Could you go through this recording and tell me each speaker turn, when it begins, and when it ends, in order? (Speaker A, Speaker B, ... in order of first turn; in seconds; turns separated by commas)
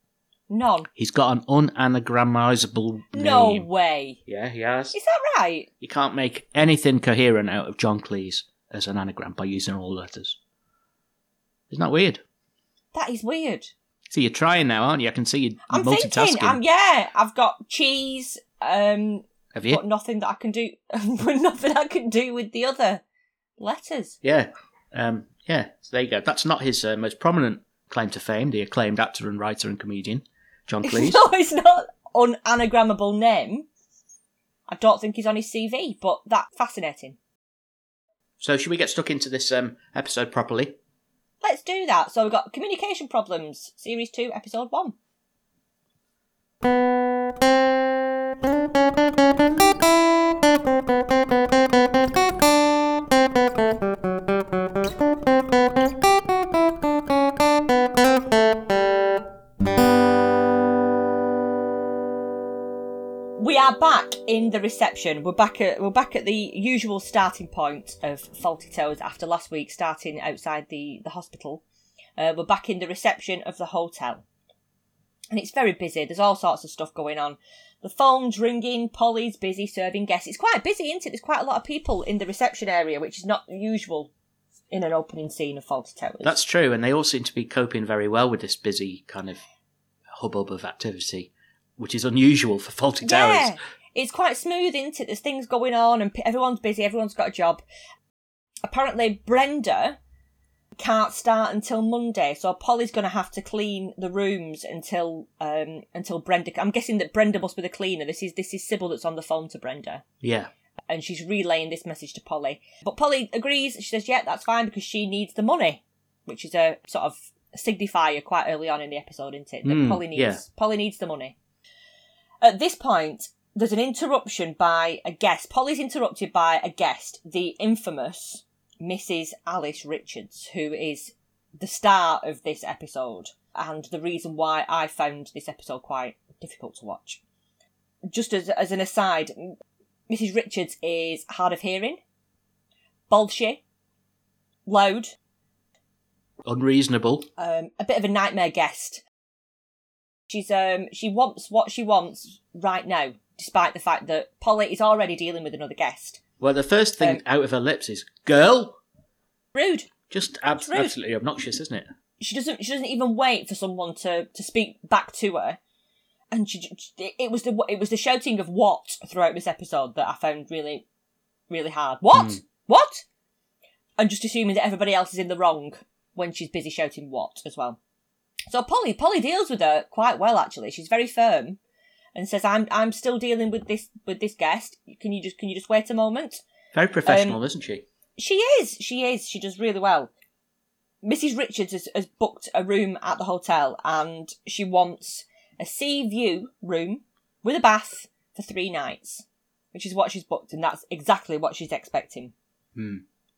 Speaker A: 0.5-0.9, Speaker B: 1.0-3.7, Speaker A: 3.1-4.2, Speaker B: 4.3-5.0, Speaker A: 4.9-5.7, Speaker B: 5.8-10.4, Speaker B: 11.7-12.2, Speaker A: 12.9-13.7, Speaker B: 14.1-16.6, Speaker A: 15.7-23.0, Speaker B: 19.5-19.8, Speaker A: 23.6-24.2, Speaker B: 24.2-31.2, Speaker A: 30.8-33.7, Speaker A: 34.7-37.2, Speaker B: 38.4-40.8, Speaker A: 41.4-45.0, Speaker A: 63.4-71.6, Speaker A: 72.2-74.2, Speaker A: 75.3-84.1, Speaker A: 84.7-86.4, Speaker B: 86.2-89.4, Speaker B: 90.1-93.6, Speaker A: 93.0-97.6, Speaker A: 98.7-100.0, Speaker A: 100.8-110.0, Speaker B: 110.2-110.5, Speaker A: 110.9-121.3, Speaker B: 119.6-120.4, Speaker A: 122.4-137.2, Speaker A: 138.1-139.6, Speaker A: 140.1-142.0, Speaker A: 143.1-143.6, Speaker A: 144.7-145.2, Speaker B: 146.4-147.3, Speaker A: 147.4-149.0, Speaker A: 150.3-156.2, Speaker B: 156.4-158.8, Speaker A: 159.6-159.9, Speaker B: 160.1-161.9, Speaker A: 160.6-160.9, Speaker A: 162.2-165.6, Speaker A: 166.3-170.8, Speaker A: 171.5-173.0, Speaker B: 172.1-172.4, Speaker A: 174.0-177.8, Speaker A: 178.5-181.6, Speaker A: 182.2-186.4, Speaker B: 186.7-187.8, Speaker A: 187.1-187.4, Speaker A: 188.2-190.1, Speaker A: 191.0-202.3, Speaker B: 202.8-203.0